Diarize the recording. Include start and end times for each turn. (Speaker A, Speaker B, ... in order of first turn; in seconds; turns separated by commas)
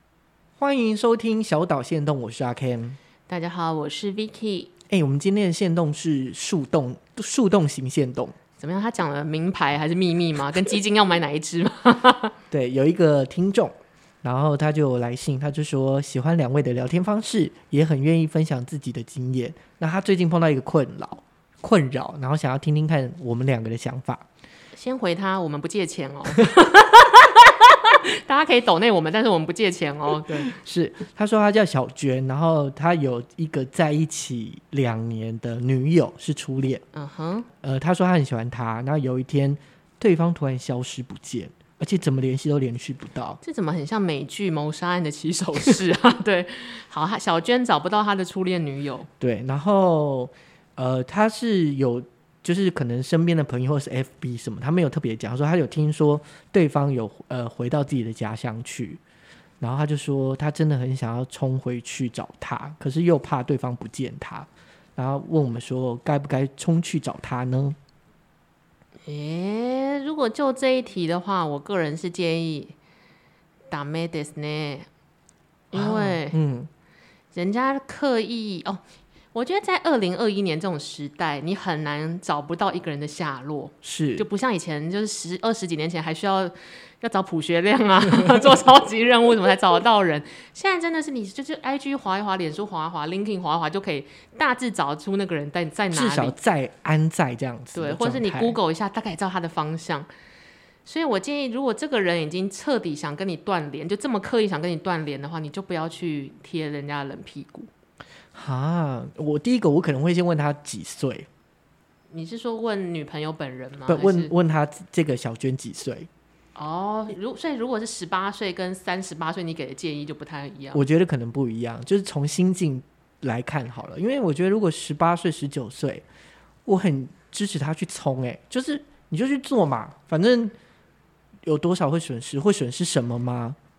Speaker A: 0.6-3.0, Speaker B: 3.3-4.7, Speaker A: 4.9-8.4, Speaker B: 8.6-12.3, Speaker A: 12.5-24.2, Speaker B: 24.7-30.5, Speaker A: 30.3-36.8, Speaker B: 36.9-37.5, Speaker A: 37.6-43.4, Speaker B: 43.4-49.1, Speaker A: 49.2-59.0, Speaker A: 59.6-67.8, Speaker B: 69.0-72.8, Speaker B: 73.7-74.9, Speaker B: 75.7-76.4, Speaker A: 75.7-76.7, Speaker B: 77.3-78.8, Speaker B: 79.3-96.4, Speaker A: 83.8-84.3, Speaker A: 95.9-98.6, Speaker B: 97.8-100.1, Speaker B: 100.8-107.7, Speaker A: 108.3-111.3, Speaker B: 112.1-114.3, Speaker A: 113.9-116.1, Speaker B: 116.6-120.8, Speaker A: 120.7-126.0, Speaker A: 126.7-130.5, Speaker A: 131.5-133.6